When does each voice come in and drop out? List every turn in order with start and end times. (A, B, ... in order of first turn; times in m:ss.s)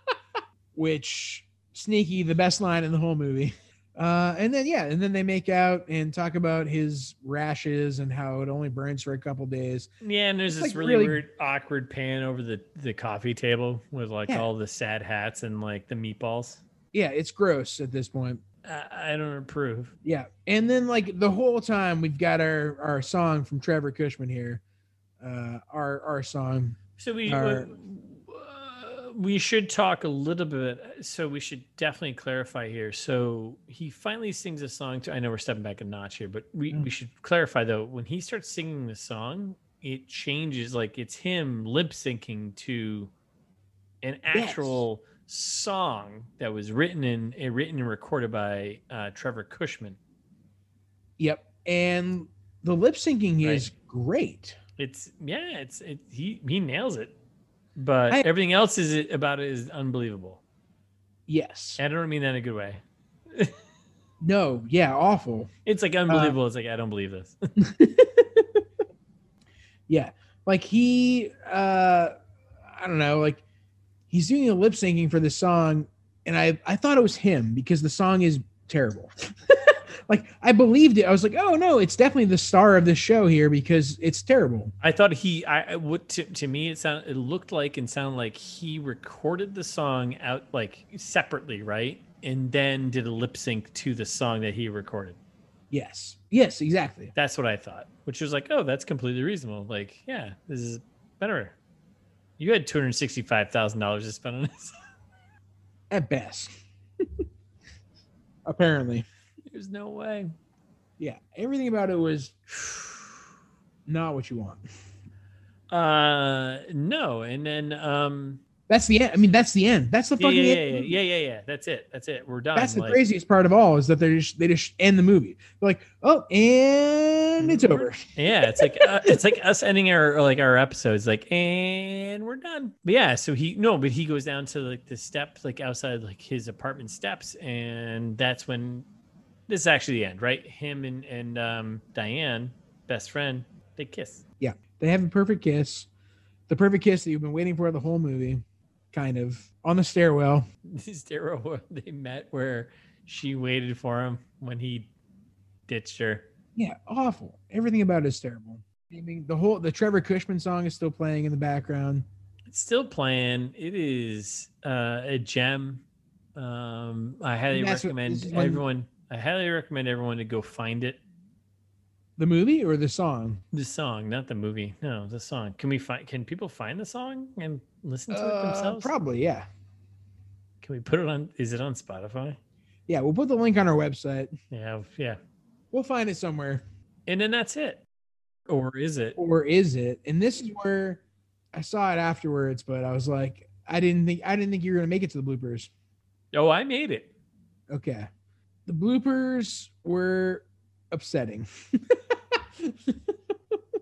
0:00.7-0:09.9 A
0:10.0-0:16.6 B
0:10.5-0:11.2 A
0:16.9-0:18.4 A
0:18.6-0:19.9 B
0:20.0-0:24.6 A
0:25.2-0:27.7 A
0:27.0-0:43.1 B
0:44.0-0:50.0 B
0:44.3-0:44.8 A
0:51.2-0:54.6 A
0:53.4-0:53.7 B
0:54.8-0:57.1 B
0:57.8-1:00.4 B
1:01.3-1:01.8 A
1:01.8-1:02.8 B
1:04.2-1:05.5 A
1:05.7-1:07.4 B
1:06.1-1:06.4 A
1:07.6-1:08.6 A
1:09.9-1:13.4 A
1:14.1-1:24.7 A
1:24.8-1:35.2 B
1:35.7-1:37.1 A
1:37.1-1:41.6 B
1:42.4-1:44.8 B
1:45.9-1:46.5 A
1:48.4-1:49.0 A
1:49.5-1:50.3 B
1:51.0-1:52.3 A
1:52.5-1:53.1 B
1:53.9-1:54.6 A
1:55.7-1:58.4 B
1:58.7-2:00.9 A
2:00.2-2:03.0 B
2:02.6-2:09.2 A
2:07.4-2:18.9 B
2:19.5-2:24.2 B
2:24.4-2:25.9 A
2:26.5-2:30.5 A
2:30.7-2:34.9 B
2:35.7-2:36.3 B
2:36.6-2:42.1 A
2:42.5-2:45.8 B
2:46.4-2:51.0 B
2:47.5-2:48.6 A
2:52.2-2:53.4 A
2:53.5-2:58.9 B
2:58.1-2:59.5 A
3:00.6-3:02.4 B
3:02.9-3:04.3 A
3:04.5-3:05.2 B
3:05.7-3:06.6 A
3:07.1-3:07.8 B
3:08.5-3:09.2 B
3:09.2-3:11.0 A
3:11.5-3:15.7 A
3:16.3-3:17.1 B
3:17.7-3:18.1 A
3:18.7-3:23.2 A